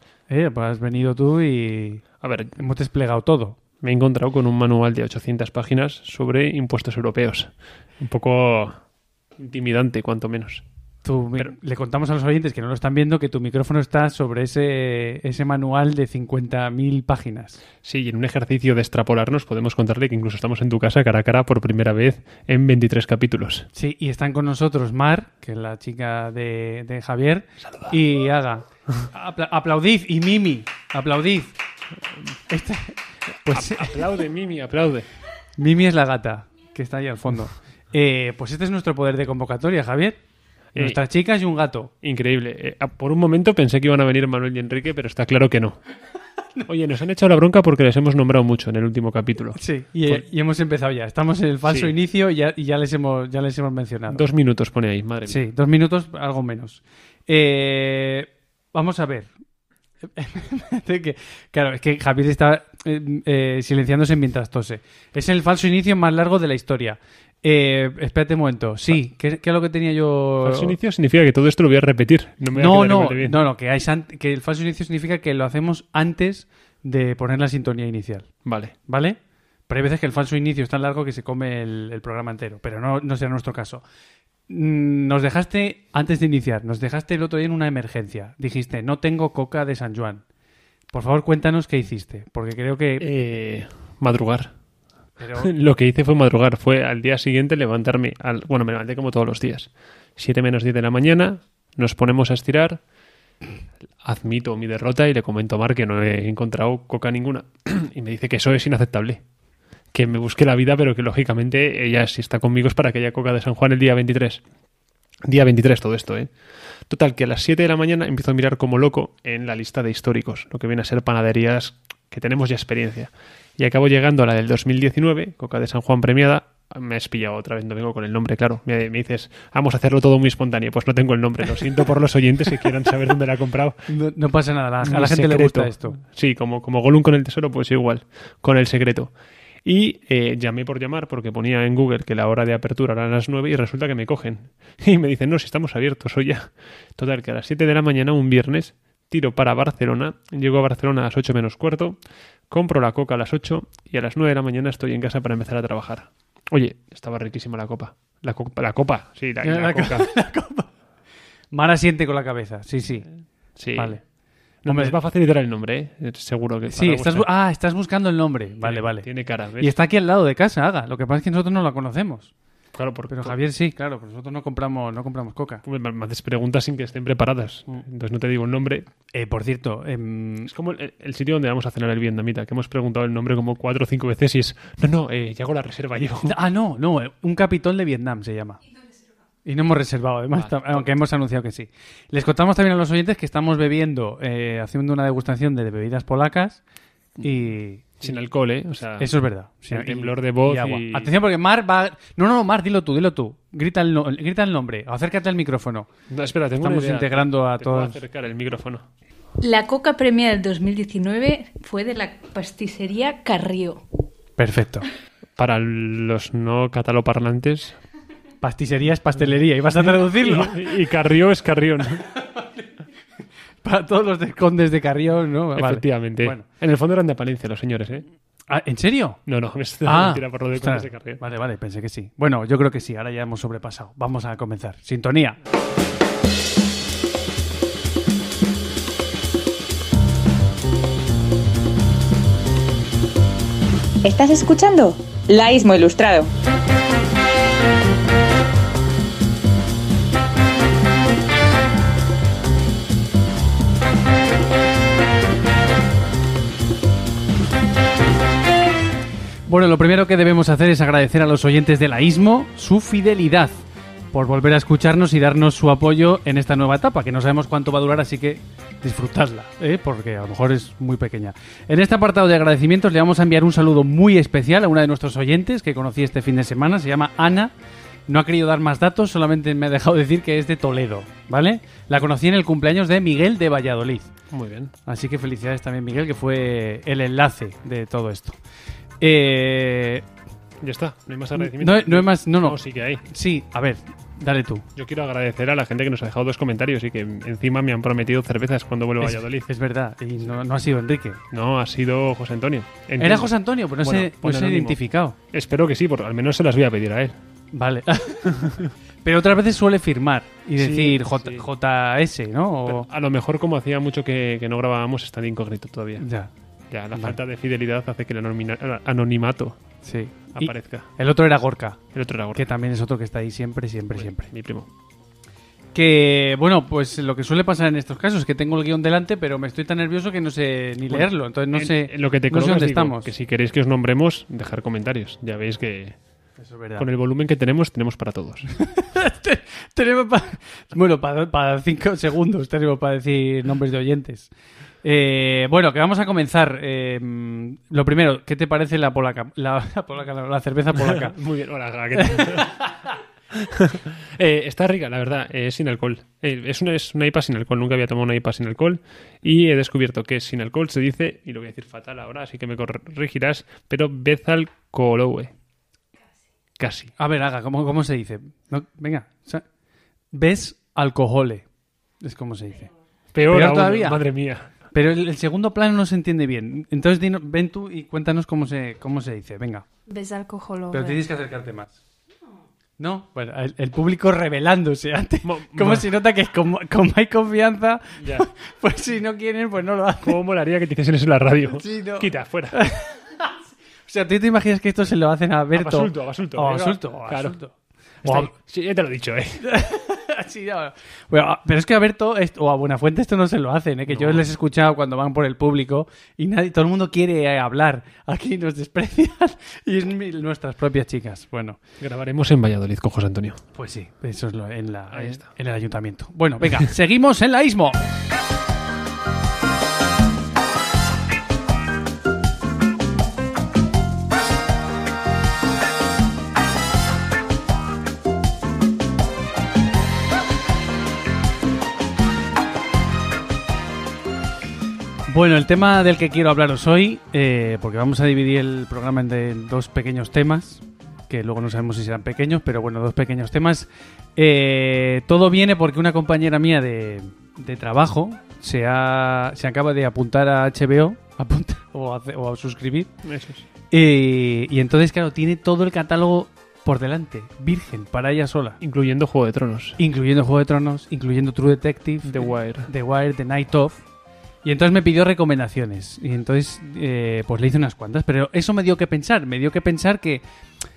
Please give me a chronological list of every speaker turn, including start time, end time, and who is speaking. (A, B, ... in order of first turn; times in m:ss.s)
0:00.3-0:03.6 A
0:02.2-0:02.6 B
0:03.8-0:08.8 B
0:09.4-0:10.6 B
0:11.0-0:17.6 A
0:17.8-0:23.7 B
0:23.8-0:31.5 A
0:27.6-0:28.0 B
0:32.5-0:34.0 A
0:33.5-0:35.1 B
0:35.6-0:40.2 A
0:40.7-0:41.0 B
0:40.8-0:41.9 A
0:42.0-0:45.8 B
0:46.6-0:50.2 B
0:49.6-0:54.2 A
0:51.6-0:51.9 B
0:54.1-0:55.5 B
0:55.3-0:59.3 A
1:00.1-1:10.8 A
1:10.4-1:13.4 B
1:12.6-1:18.3 A
1:18.4-1:18.7 B
1:18.9-1:23.8 A
1:24.5-1:30.2 A
1:30.9-1:33.0 A
1:33.0-1:34.6 B
1:35.2-1:35.5 A
1:35.4-1:42.8 B
1:44.0-1:49.2 B
1:49.9-1:54.4 B
1:55.2-1:56.3 B
1:56.9-2:13.9 B
2:13.9-2:16.0 A
2:14.8-2:19.1 B
2:19.6-2:32.0 B
2:32.5-2:40.1 B
2:39.4-2:40.7 A
2:41.5-2:43.1 A
2:43.6-2:44.0 B
2:43.8-2:44.0 A
2:44.6-2:47.3 B
2:44.7-2:45.0 A
2:46.8-2:49.1 A
2:48.6-2:49.8 B
2:49.6-2:52.3 A
2:52.7-2:53.4 B
2:53.1-2:55.6 A
2:55.6-2:58.9 B
2:59.1-3:00.5 A
3:00.5-3:06.4 B
3:06.2-3:08.6 A
3:09.4-3:16.6 A
3:10.3-3:10.9 B
3:17.2-3:18.1 A
3:18.0-3:19.1 B
3:19.0-3:25.9 A
3:19.7-3:21.1 B
3:26.1-3:28.9 B
3:26.6-3:28.0 A
3:29.4-3:33.8 C
3:34.4-3:34.9 A
3:35.4-3:37.8 B
3:38.4-3:40.7 A
3:39.8-3:42.0 B
3:43.6-3:46.5 A
3:45.6-3:48.1 B
3:48.5-3:49.2 A
3:49.3-3:51.2 B
3:49.8-3:55.4 A
4:04.0-4:06.3 D
4:19.5-4:23.6 A
4:24.1-4:37.5 A
4:38.1-4:44.1 A
4:44.3-4:44.7 B
4:44.9-4:48.4 A
4:49.0-4:50.1 A
4:50.6-4:53.0 B
4:51.4-4:54.6 A
4:54.8-4:59.5 B
4:59.0-5:01.2 A
5:01.3-5:07.2 B
5:03.0-5:05.2 A
5:07.6-5:12.9 A
5:08.3-5:08.7 B
5:10.6-5:11.5 B
5:12.7-5:16.1 B
5:16.0-5:16.3 A
5:16.7-5:19.6 B
5:19.8-5:21.8 A
5:20.3-5:20.9 B
5:21.9-5:22.4 B
5:22.3-5:24.3 A
5:23.9-5:24.7 B
5:25.8-5:33.1 A
5:30.9-5:36.0 B
5:36.4-5:36.9 A
5:36.8-5:38.5 B
5:38.6-5:44.3 A
5:44.8-5:51.2 A
5:50.7-5:52.7 B
5:52.0-5:52.9 A
5:53.3-6:05.3 B
6:06.6-6:06.9 B
6:07.0-6:09.4 A
6:10.1-6:11.4 A
6:12.0-6:12.7 A
6:13.1-6:14.5 B
6:13.2-6:14.0 A
6:14.7-6:19.7 A
6:19.9-6:20.7 C
6:20.7-6:21.8 A
6:22.8-6:30.2 A
6:25.2-6:25.9 B
6:28.0-6:28.3 B
6:30.0-6:32.6 B
6:31.6-6:33.3 A
6:33.9-6:37.5 A
6:35.5-6:37.4 B
6:38.0-6:38.3 A
6:38.0-6:39.4 B
6:39.4-6:51.6 A
6:43.9-6:44.2 B
6:51.8-6:53.4 B
6:53.6-6:57.8 A
6:54.9-6:55.3 B
7:15.1-7:32.9 A
7:33.0-7:33.4 B
7:33.7-7:38.6 A
7:38.6-7:39.8 B
7:39.8-7:43.8 A
7:42.0-7:42.7 B
7:44.4-7:50.2 A